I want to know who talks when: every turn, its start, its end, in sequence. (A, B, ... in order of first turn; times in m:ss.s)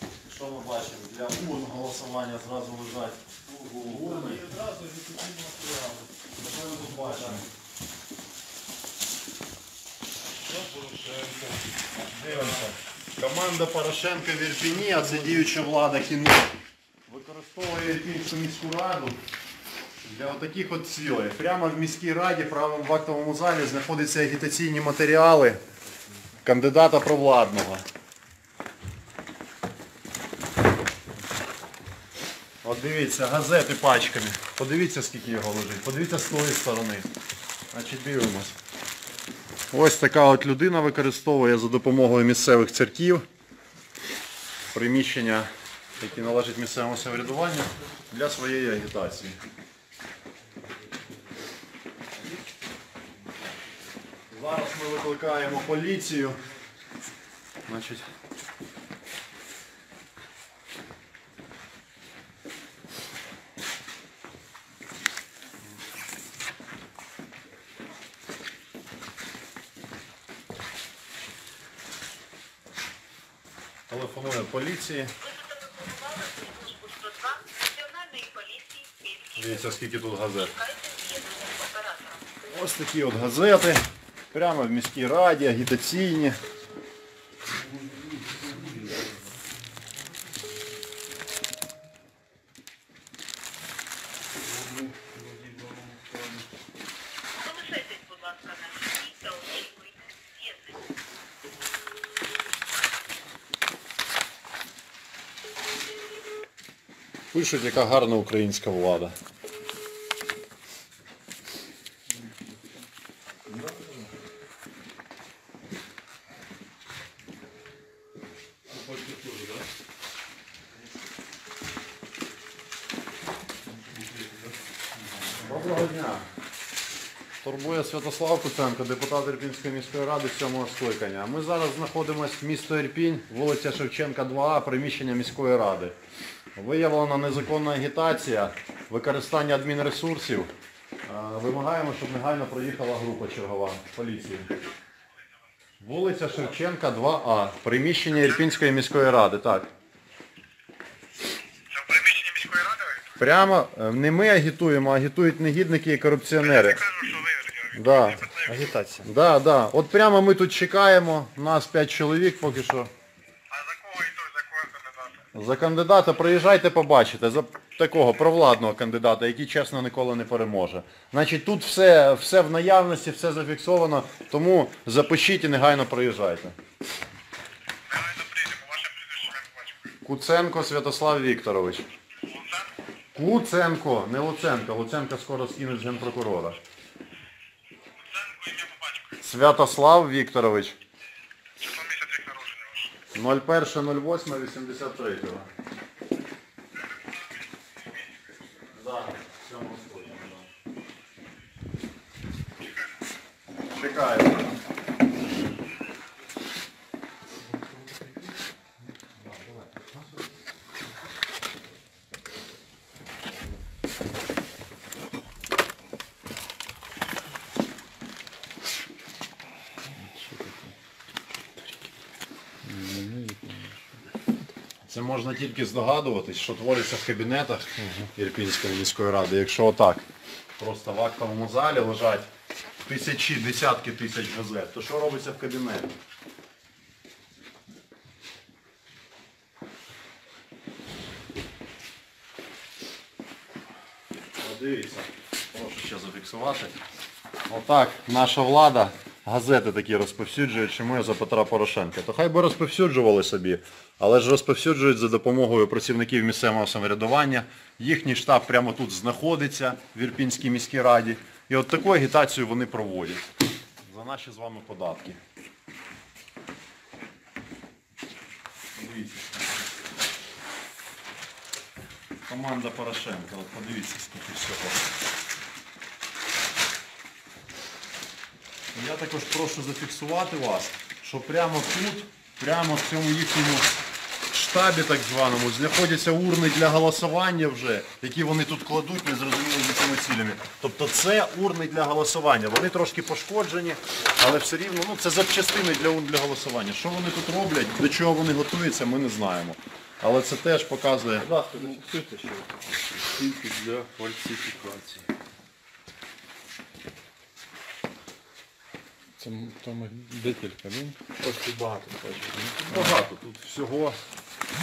0:00.2-0:04.5 A
0:03.7-0:06.1 B
0:06.4-0:07.4 A
0:10.5-0:11.7 B
0:12.1-0:16.5 A
0:17.1-0:19.2 A
0:20.0-0:25.6 A
0:26.4-0:27.8 A
0:32.6-0:37.1 A
0:37.7-0:38.6 A
0:39.7-0:43.3 A
0:44.7-0:49.4 A
0:54.3-0:56.4 A
0:57.7-0:58.0 A
1:13.9-1:15.1 A
1:15.2-1:19.8 C
1:19.4-1:20.6 A
1:20.4-1:22.3 C
1:22.5-1:26.4 A
1:27.6-1:29.0 B
1:34.4-1:36.5 B
1:37.4-1:40.8 C
1:47.3-1:49.2 A
1:58.7-1:59.7 B
2:03.7-2:04.6 B
2:05.4-2:06.2 A
2:07.4-2:16.0 A
2:16.6-2:20.5 A
2:21.1-2:24.5 A
2:25.8-2:29.7 A
2:31.7-2:33.1 D
2:33.2-2:37.0 A
2:36.8-2:37.7 D
2:37.7-2:38.4 A
2:38.5-2:39.0 B
2:39.0-2:42.9 A
2:43.5-2:45.2 D
2:45.3-2:56.6 A
2:57.9-2:59.8 D
3:00.0-3:01.9 A
3:02.3-3:02.7 D
3:03.2-3:06.6 A
3:08.1-3:09.1 D
3:09.2-3:10.8 A
3:11.6-3:12.9 D
3:13.1-3:15.5 A
3:18.7-3:20.5 A
3:23.8-3:24.6 A
3:27.8-3:28.1 B
3:40.0-3:40.7 B
3:42.6-3:43.8 B
3:44.8-3:50.1 A
3:50.6-3:52.3 A
3:52.8-3:56.0 A
4:04.4-4:06.8 A
4:07.5-4:23.3 A
4:23.8-4:25.2 A
4:28.8-4:29.4 A
4:32.3-4:34.9 A
4:38.7-4:43.7 A
4:44.3-5:01.3 A
5:01.2-5:05.1 B
5:09.2-5:13.0 B
5:12.7-5:14.0 A